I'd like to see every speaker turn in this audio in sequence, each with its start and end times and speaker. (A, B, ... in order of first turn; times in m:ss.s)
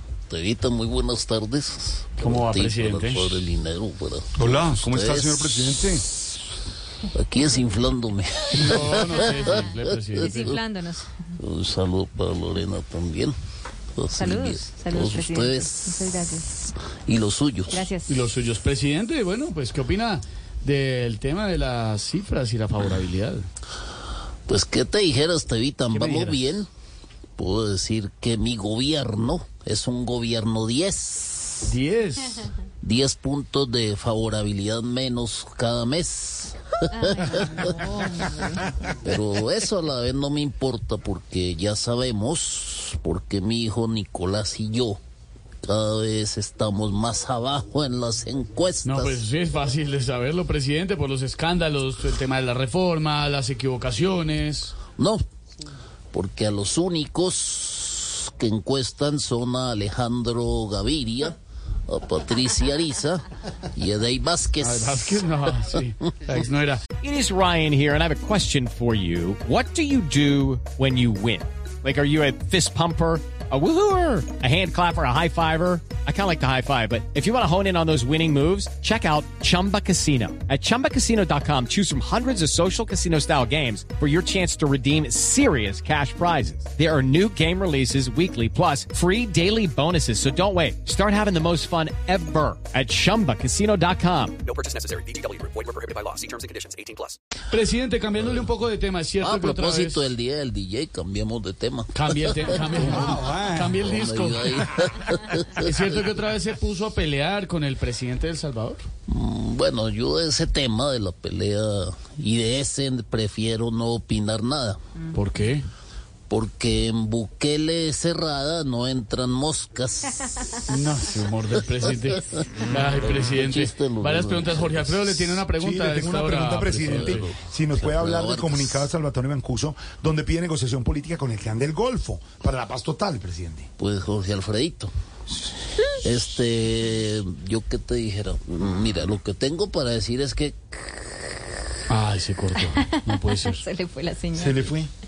0:00.3-0:06.3 A
0:02.2-0:03.4 B
0:04.4-0:06.0 C
0:07.1-0:10.6 A
0:08.5-0:10.6 B
0:09.3-0:11.1 D
0:11.4-0:13.4 A
0:14.0-0:16.1 A
0:14.2-0:16.5 D
0:17.1-0:17.9 A
0:17.7-0:18.2 D
0:18.1-0:23.5 B
0:24.5-0:26.7 A
0:25.9-0:26.4 B
0:27.4-0:31.7 A
0:31.7-0:32.5 B
0:32.8-0:37.8 A
0:37.0-0:38.6 D
0:38.5-0:45.0 A
0:45.6-0:49.2 A
0:48.8-0:54.8 B
0:55.0-0:55.2 A
0:56.1-1:05.4 A
1:04.6-1:06.8 B
1:07.0-1:34.4 E
1:34.4-1:37.2 F
1:37.5-1:40.1 B
1:39.2-1:43.1 A
1:41.9-1:44.7 B
1:42.8-1:43.8 C
1:43.6-1:45.8 A
1:45.6-1:48.9 B
1:49.1-1:54.8 A
1:55.1-1:55.7 B
1:56.3-2:00.6 A
2:00.7-2:07.3 B
2:02.4-2:05.4 A
2:05.6-2:13.7 C
2:06.8-2:08.9 A
2:13.8-2:14.9 A
2:16.0-2:21.3 A
2:21.9-2:23.7 B
2:22.6-2:24.8 D
2:24.3-2:24.9 C